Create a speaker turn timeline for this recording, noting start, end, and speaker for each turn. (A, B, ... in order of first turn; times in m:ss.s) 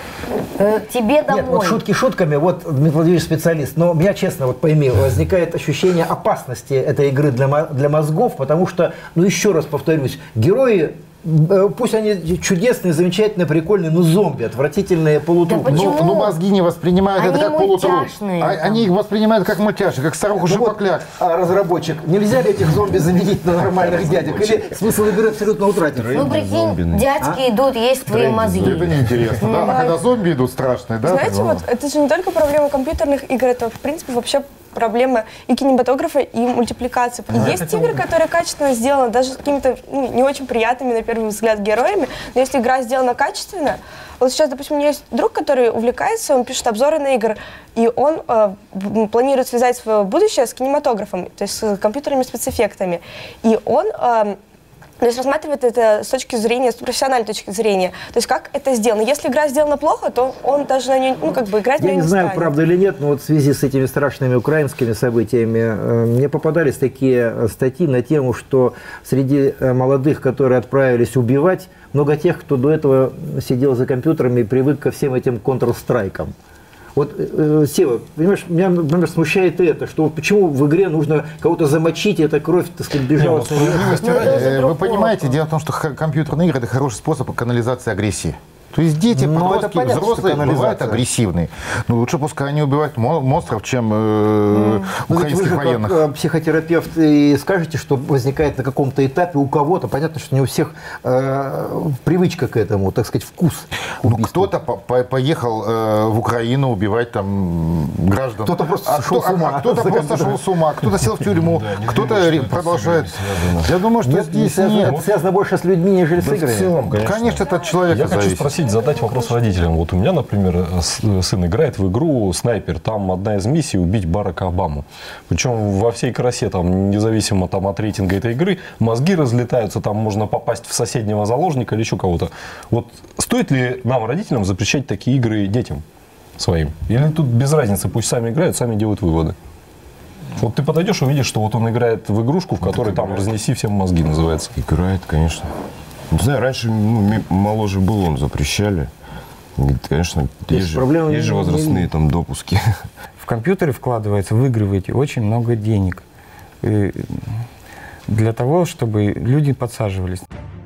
0:00.6-0:01.8 A
0:01.3-0:16.0 B
0:15.5-0:16.4 A
0:15.5-0:21.1 C
0:17.1-0:18.9 A
0:20.4-0:26.4 B
0:25.9-0:27.3 D
0:26.1-0:28.8 A
0:28.1-0:28.7 B
0:28.1-0:29.2 D
0:28.5-0:31.6 C
0:29.4-0:29.7 A
0:29.5-0:30.0 E
0:31.0-0:54.4 E
0:37.3-0:38.0 B
0:55.0-1:02.6 E
1:01.8-1:16.3 B
1:17.0-1:24.8 B
1:23.2-1:36.0 C
1:23.2-1:23.8 F
1:24.1-1:24.5 E
1:29.1-1:31.0 B
1:34.5-1:44.5 B
1:44.0-1:55.0 C
1:48.4-1:50.4 B
1:51.3-1:53.7 D
1:54.0-1:56.8 B
1:56.2-1:58.7 C
1:56.8-1:57.3 D
1:56.8-2:15.8 F
2:16.4-2:19.4 F
2:20.4-2:24.5 F
2:22.6-2:23.3 D
2:24.6-2:25.5 D
2:26.1-2:28.9 D
2:29.6-2:32.6 D
2:30.5-2:31.9 B
2:33.2-2:36.0 G
2:36.6-2:37.4 G
2:38.1-2:40.3 G